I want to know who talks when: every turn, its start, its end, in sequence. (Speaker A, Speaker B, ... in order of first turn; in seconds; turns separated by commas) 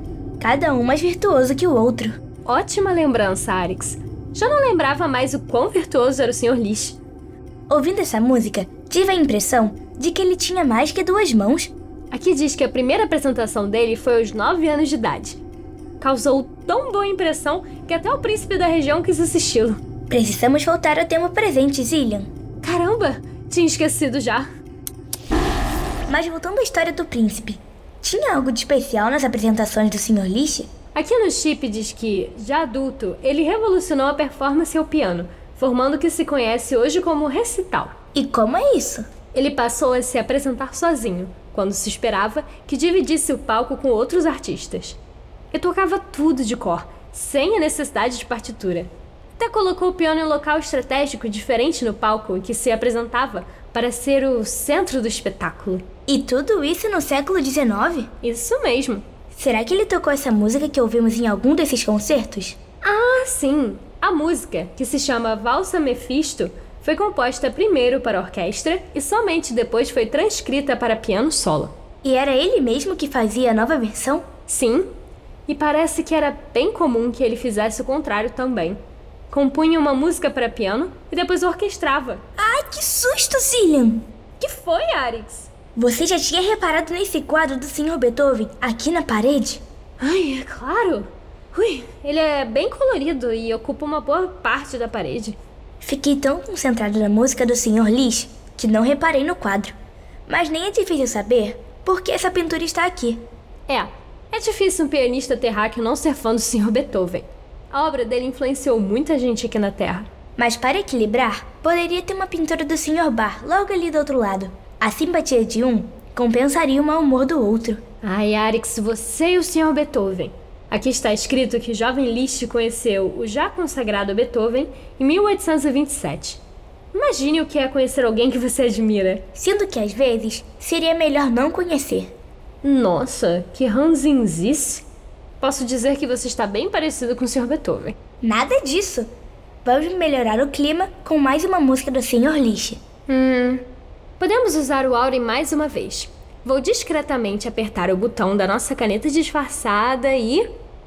Speaker A: 0.4-2.2, Speaker B: 2.5-7.0, Speaker A: 7.7-11.7, Speaker B: 12.1-15.4, Speaker B: 16.0-19.8, Speaker A: 20.1-22.3, Speaker B: 22.6-24.5, Speaker A: 26.1-30.7, Speaker B: 30.9-37.9, Speaker A: 38.1-39.1, Speaker B: 39.3-45.0, Speaker B: 45.5-55.9, Speaker A: 56.1-58.1, Speaker B: 58.2-59.0, Speaker A: 59.3-62.6, Speaker B: 62.8-71.7, Speaker A: 72.0-74.3, Speaker B: 74.5-74.9, Speaker B: 75.5-78.8, Speaker B: 79.3-82.2, Speaker A: 82.4-84.1, Speaker B: 84.4-85.5, Speaker A: 85.8-89.6, Speaker B: 90.0-95.4, Speaker A: 95.8-99.8, Speaker A: 100.3-103.2, Speaker B: 103.7-110.1, Speaker A: 110.4-117.8, Speaker B: 118.0-126.4, Speaker B: 126.9-129.3, Speaker A: 129.3-132.1, Speaker B: 132.6-134.8, Speaker B: 135.4-137.9, Speaker A: 138.2-139.1, Speaker A: 139.6-142.8, Speaker B: 143.1-143.7, Speaker B: 144.2-150.5